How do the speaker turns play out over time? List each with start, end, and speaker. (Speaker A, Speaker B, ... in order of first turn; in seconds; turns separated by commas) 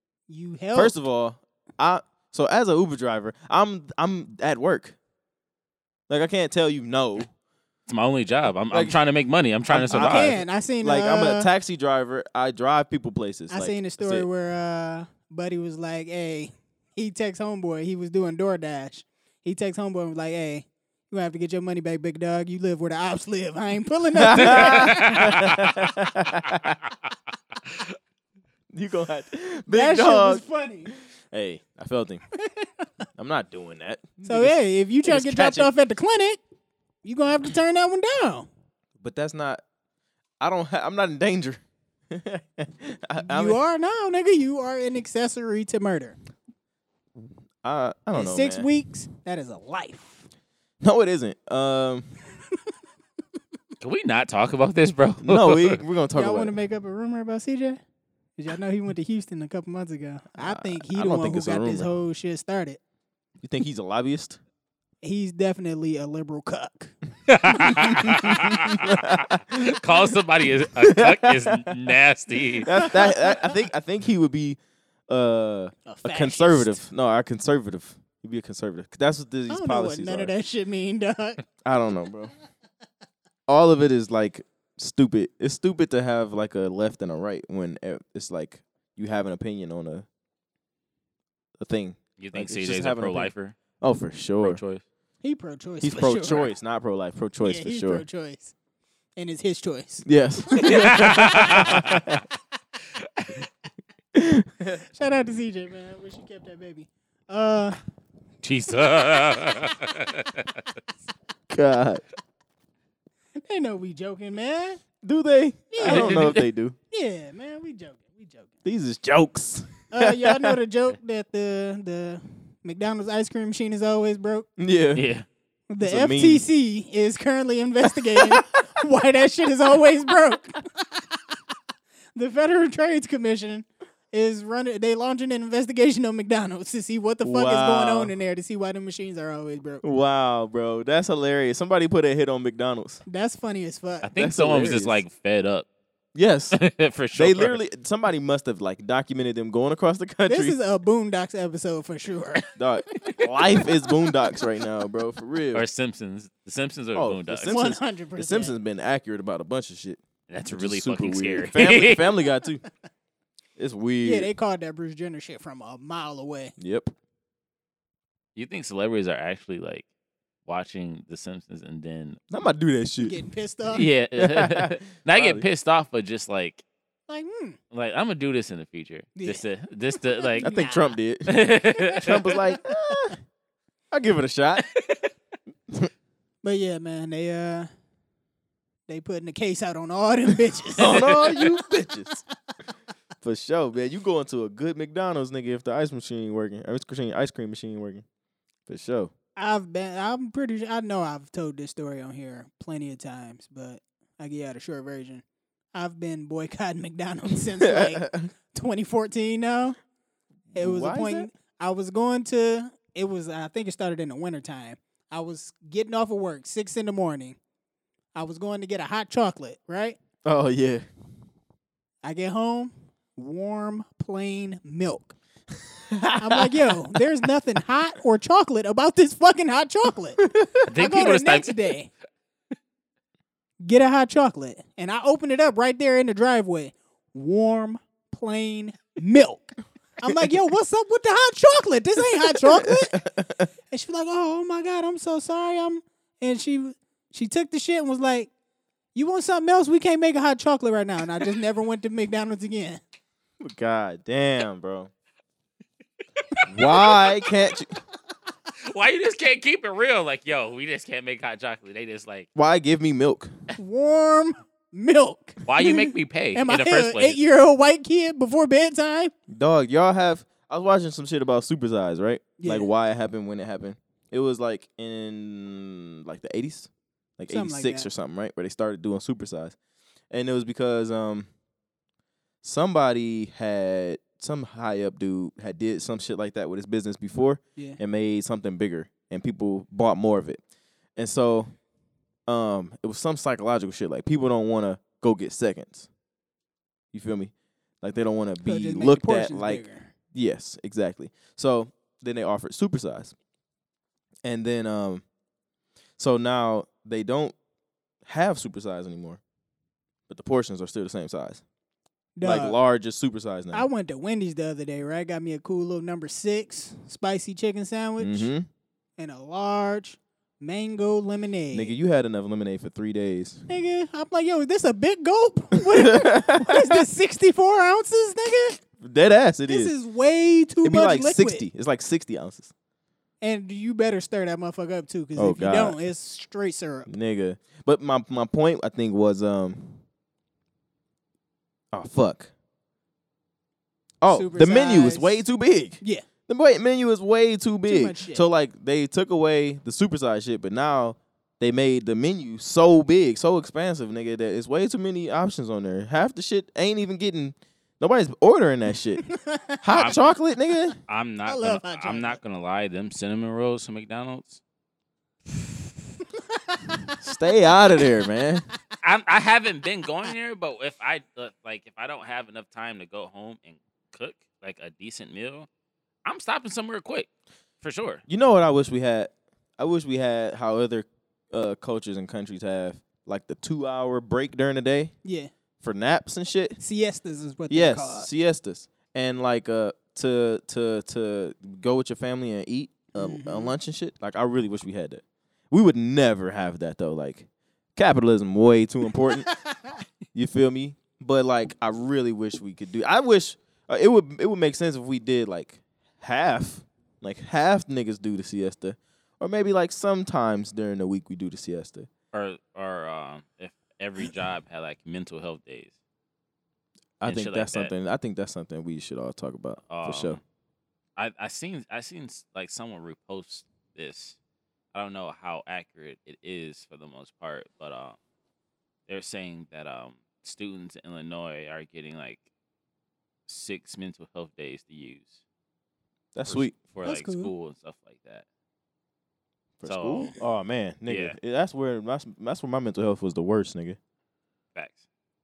Speaker A: 0.3-0.9, Speaker B: 0.7-5.0, Speaker B: 6.1-7.3, Speaker C: 7.9-10.4, Speaker B: 8.7-9.0, Speaker B: 9.7-14.3, Speaker A: 9.9-11.5, Speaker A: 13.5-25.4, Speaker B: 24.1-26.8, Speaker C: 24.4-26.9, Speaker B: 28.7-32.2, Speaker A: 29.7-30.9, Speaker A: 32.4-32.9, Speaker B: 33.2-34.5, Speaker A: 34.2-36.4, Speaker B: 35.0-35.7, Speaker A: 37.0-38.5, Speaker B: 39.0-39.6, Speaker B: 40.4-43.6, Speaker A: 43.2-46.2, Speaker B: 47.6-48.7, Speaker A: 48.1-50.3, Speaker B: 50.8-52.1, Speaker C: 53.8-55.8, Speaker B: 55.2-56.5, Speaker A: 56.1-57.8, Speaker A: 58.4-62.8, Speaker B: 60.4-61.9, Speaker B: 63.4-64.4, Speaker A: 65.0-66.9, Speaker C: 67.3-72.7, Speaker B: 67.7-69.7, Speaker B: 70.8-71.7, Speaker B: 72.6-80.3, Speaker A: 72.7-73.6, Speaker A: 75.8-76.8, Speaker A: 79.5-81.4, Speaker B: 81.6-82.3, Speaker B: 83.5-90.1, Speaker B: 91.6-94.6, Speaker C: 92.2-93.6, Speaker C: 94.4-94.8, Speaker A: 95.2-96.5, Speaker B: 95.8-98.0, Speaker A: 97.4-98.5, Speaker A: 99.2-101.9, Speaker B: 100.0-102.2, Speaker C: 100.6-102.0, Speaker B: 104.1-104.8, Speaker A: 104.7-107.8, Speaker C: 108.4-110.6, Speaker B: 111.5-112.0, Speaker A: 113.4-114.8, Speaker B: 115.0-116.8, Speaker A: 115.7-116.4, Speaker C: 115.8-116.4, Speaker A: 116.9-118.5, Speaker B: 118.6-120.6, Speaker A: 119.9-124.5, Speaker B: 124.6-125.0, Speaker C: 124.9-125.2, Speaker A: 125.7-131.3, Speaker B: 125.8-126.4, Speaker B: 128.1-128.4, Speaker A: 132.1-139.8, Speaker B: 137.2-138.1, Speaker B: 139.8-143.0, Speaker A: 143.1-144.1, Speaker C: 144.0-145.7, Speaker B: 144.2-145.0, Speaker B: 146.1-146.6, Speaker C: 146.5-147.6, Speaker B: 147.1-150.6, Speaker A: 150.3-153.9, Speaker B: 152.5-155.6, Speaker C: 155.5-157.5, Speaker B: 156.9-162.6, Speaker A: 157.5-158.5, Speaker C: 160.3-162.1, Speaker B: 163.6-164.3, Speaker A: 164.0-166.5, Speaker B: 166.6-166.9, Speaker C: 168.3-169.9, Speaker C: 170.4-172.2, Speaker B: 172.3-173.2, Speaker A: 173.0-173.9, Speaker C: 173.7-176.6, Speaker B: 174.2-175.4, Speaker A: 177.1-177.6, Speaker C: 177.7-180.5, Speaker A: 179.2-180.9, Speaker B: 180.4-183.2, Speaker C: 181.3-182.2, Speaker A: 182.3-182.6, Speaker B: 183.9-184.7, Speaker A: 186.4-187.7, Speaker A: 188.9-191.6, Speaker B: 190.7-192.2, Speaker B: 193.2-198.0, Speaker B: 198.7-199.1, Speaker A: 199.3-205.2, Speaker A: 205.7-209.8, Speaker B: 207.6-208.3, Speaker B: 210.5-211.3, Speaker A: 210.5-217.4, Speaker A: 218.1-220.0, Speaker B: 220.2-220.8, Speaker A: 222.0-225.2, Speaker B: 225.7-227.0, Speaker A: 226.2-230.2, Speaker B: 230.2-230.7, Speaker C: 230.7-231.6, Speaker A: 230.7-231.9, Speaker A: 233.6-243.0, Speaker B: 242.1-243.5, Speaker A: 243.7-248.3, Speaker A: 248.9-252.8, Speaker B: 253.4-254.9, Speaker C: 256.2-257.1, Speaker B: 256.5-257.7, Speaker C: 258.6-262.3, Speaker B: 262.3-263.3, Speaker A: 263.6-269.1, Speaker C: 265.4-267.2, Speaker B: 269.3-279.6, Speaker A: 272.4-272.7, Speaker A: 277.3-277.9, Speaker B: 280.1-281.3, Speaker B: 282.4-290.4, Speaker B: 290.9-291.5, Speaker B: 292.3-295.9, Speaker B: 296.9-303.1, Speaker A: 298.4-299.9, Speaker B: 304.2-305.0, Speaker B: 306.0-307.3, Speaker B: 308.0-309.2, Speaker B: 310.1-311.4, Speaker A: 312.2-312.6, Speaker B: 312.2-313.7, Speaker A: 313.5-318.3, Speaker B: 318.0-318.5, Speaker A: 319.0-321.7, Speaker B: 321.5-323.5, Speaker A: 323.5-328.6, Speaker B: 325.6-326.8, Speaker B: 328.8-329.7, Speaker A: 329.5-331.4, Speaker B: 330.6-332.5, Speaker A: 333.2-336.9, Speaker B: 335.1-335.8, Speaker B: 336.9-339.8, Speaker B: 341.7-342.3, Speaker B: 344.0-359.0, Speaker A: 344.1-345.2, Speaker A: 345.8-346.1, Speaker A: 347.7-348.2, Speaker A: 359.0-359.6, Speaker B: 359.6-360.8, Speaker C: 359.7-360.0, Speaker C: 360.9-364.4, Speaker A: 361.2-362.2, Speaker A: 366.3-366.9, Speaker B: 367.0-368.4, Speaker C: 368.8-375.5, Speaker C: 376.0-377.1, Speaker C: 377.6-378.0, Speaker B: 378.1-384.9, Speaker A: 385.0-385.3, Speaker B: 385.6-386.6, Speaker A: 386.6-388.1, Speaker B: 387.5-399.3, Speaker A: 392.9-393.5, Speaker A: 399.2-399.8, Speaker B: 400.1-411.9, Speaker C: 412.1-415.7, Speaker B: 417.0-420.2, Speaker C: 417.1-417.7, Speaker C: 419.6-420.2, Speaker C: 420.9-424.2, Speaker C: 424.7-428.0, Speaker C: 428.9-432.2, Speaker C: 433.3-435.2, Speaker B: 436.1-436.5, Speaker C: 436.2-438.2, Speaker A: 436.8-437.3, Speaker B: 439.6-443.8, Speaker C: 439.6-440.1, Speaker C: 440.9-441.2, Speaker C: 444.5-444.8